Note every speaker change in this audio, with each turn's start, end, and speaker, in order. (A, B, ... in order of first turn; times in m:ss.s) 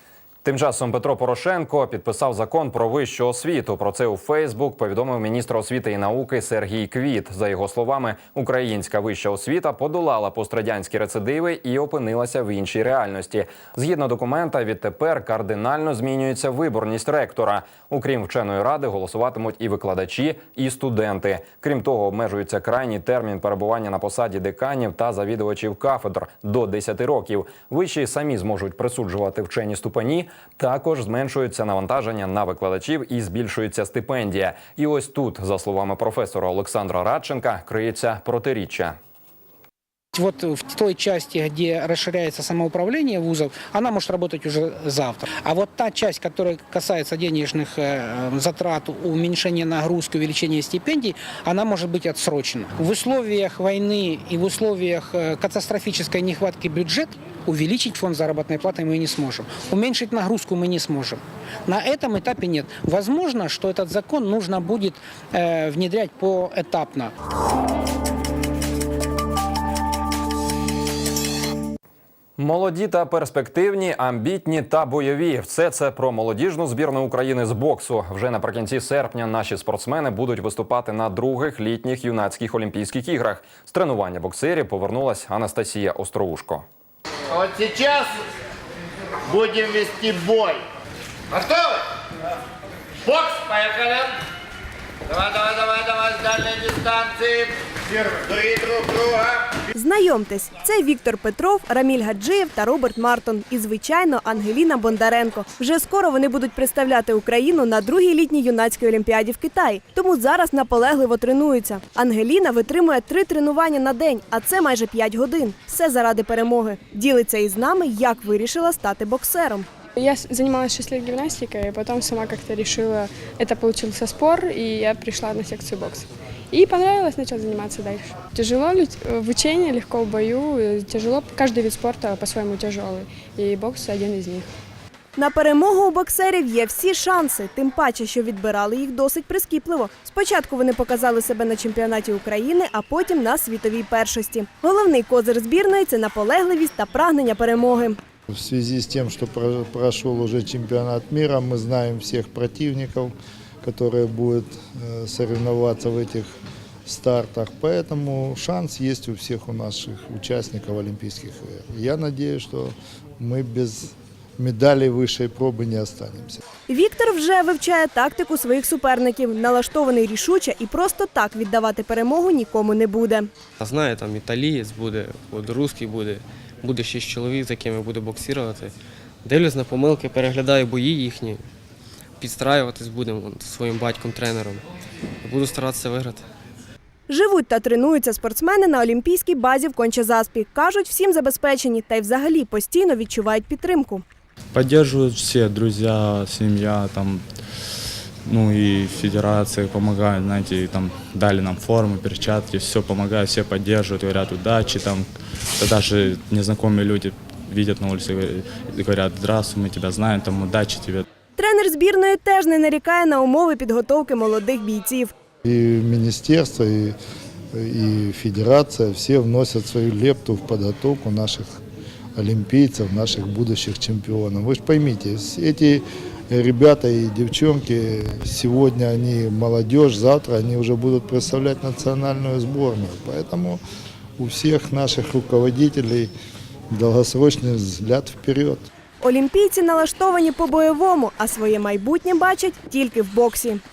0:00.4-0:39.0 A
0:40.1-1:07.1 B
1:12.4-1:26.6 A
1:27.3-1:28.2 C
1:29.3-1:30.6 C
1:31.3-1:31.7 C
1:33.1-1:34.0 C
1:35.1-1:37.5 C
1:38.0-1:39.2 C
1:39.7-1:59.7 D
2:00.0-2:14.5 E
2:15.2-2:28.0 D
2:28.3-2:36.3 F
2:36.9-2:46.4 F
2:46.7-2:53.3 D
2:53.6-2:58.7 G
2:59.2-3:01.4 G
3:02.2-3:04.6 G
3:05.2-3:06.2 G
3:07.1-3:14.0 D
3:14.5-3:17.2 H
3:18.3-3:31.0 H
3:31.4-3:35.1 D
3:35.4-3:37.0 F
3:37.5-3:41.5 F
3:42.2-3:53.6 F
3:54.2-3:56.1 F
3:56.7-3:58.6 F
3:59.0-4:03.6 D